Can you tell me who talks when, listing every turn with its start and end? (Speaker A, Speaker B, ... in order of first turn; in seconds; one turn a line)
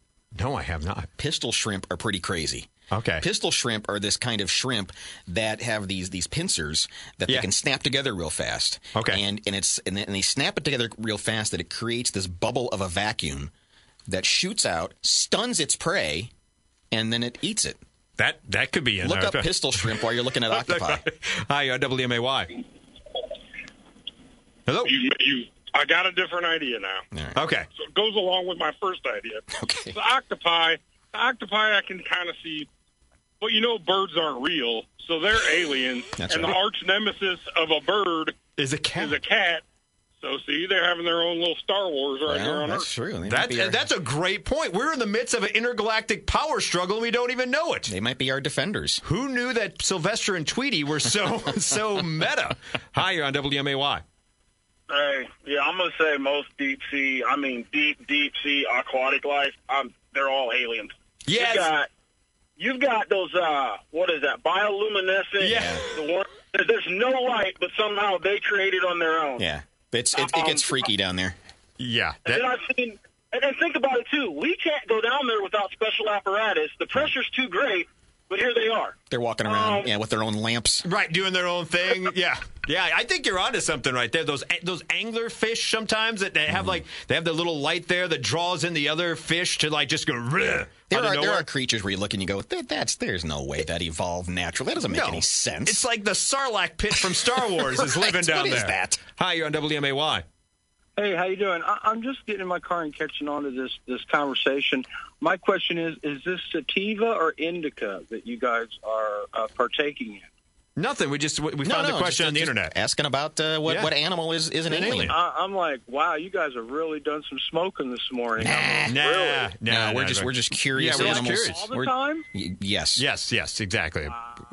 Speaker A: 0.3-1.1
Speaker B: 1.2-13.5
Speaker A: 2.9-3.2
Speaker A: 8.9-9.2
Speaker B: 14.1-16.3
Speaker B: 16.9-17.8
Speaker A: 18.2-22.6
Speaker B: 19.0-21.0
Speaker A: 24.6-24.9
Speaker C: 24.9-27.0
Speaker B: 27.1-27.4
Speaker A: 27.3-27.7
Speaker C: 27.8-32.7
Speaker B: 29.6-30.0
Speaker C: 33.4-38.3
Speaker B: 36.2-36.5
Speaker A: 38.6-39.2
Speaker C: 39.0-39.6
Speaker C: 40.2-42.9
Speaker B: 42.3-43.8
Speaker A: 43.2-47.9
Speaker B: 47.9-49.0
Speaker A: 49.0-54.0
Speaker D: 54.9-61.9
Speaker A: 61.3-61.7
Speaker D: 62.6-69.5
Speaker A: 65.4-65.8
Speaker B: 65.5-65.8
Speaker B: 69.4-71.4
Speaker D: 70.1-70.9
Speaker A: 71.8-72.4
Speaker D: 72.2-79.9
Speaker B: 79.1-80.8
Speaker A: 80.8-91.5
Speaker B: 86.5-86.8
Speaker B: 90.9-95.8
Speaker A: 94.9-100.2
Speaker B: 97.7-99.0
Speaker E: 101.0-110.3
Speaker A: 110.8-112.7
Speaker B: 111.6-115.1
Speaker A: 113.7-113.9
Speaker A: 114.7-115.2
Speaker E: 114.9-119.5
Speaker B: 118.4-119.0
Speaker A: 118.8-121.7
Speaker B: 119.6-123.0
Speaker E: 120.9-122.2
Speaker A: 123.0-124.2